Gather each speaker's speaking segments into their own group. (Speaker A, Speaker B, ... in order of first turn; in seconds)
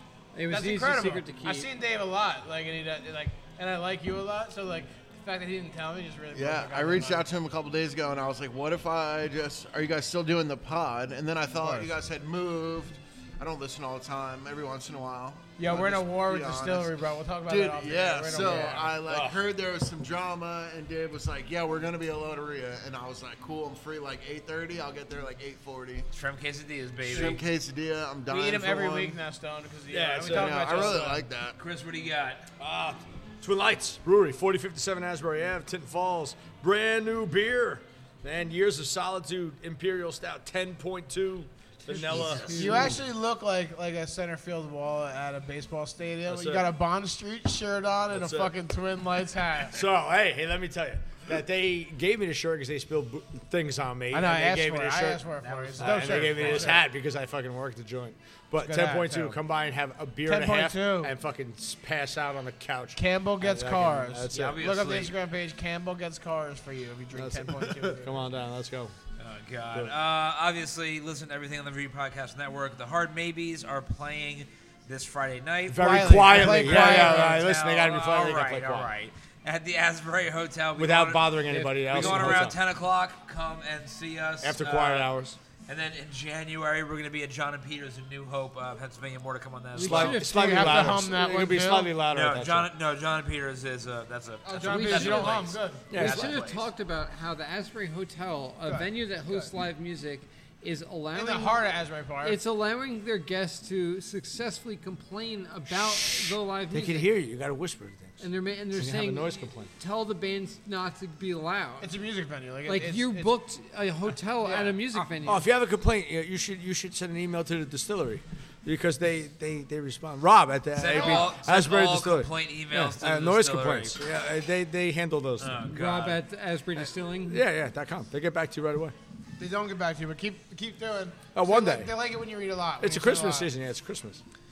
Speaker A: 0.3-1.7, 41.9-43.0, 81.5-82.5, 89.7-90.9, 94.5-101.7, 102.2-107.1, 108.2-111.9, 112.7-115.5, 125.7-127.4
Speaker B: 0.5-7.2, 11.6-11.9, 15.6-19.0, 27.1-27.4, 28.3-31.2, 42.5-49.9, 54.1-56.9, 58.6-59.4, 60.2-61.1, 63.0-68.2, 75.8-77.4, 90.2-92.0, 94.5-95.9, 98.7-99.5, 101.1-102.4, 111.8-113.3, 114.4-115.1, 120.9-121.3, 129.4-133.5
Speaker C: 6.3-26.1, 27.0-29.2, 30.3-31.6
Speaker D: 19.1-19.4, 29.9-31.1, 32.6-43.0, 46.2-46.7, 48.1-48.5, 49.7-55.2, 55.8-64.6, 67.1-68.9, 75.7-78.9, 80.8-82.6, 84.4-85.4, 89.8-92.7, 95.9-96.4, 105.7-109.7, 115.2-125.7, 127.1-128.9, 131.3-131.9, 132.8-134.2
Speaker E: 26.1-27.4, 31.6-32.5, 42.1-42.5, 55.4-56.8, 64.3-65.1, 69.2-81.3, 81.9-85.1, 85.7-90.2, 92.1-96.6, 120.8-124.0, 125.4-126.2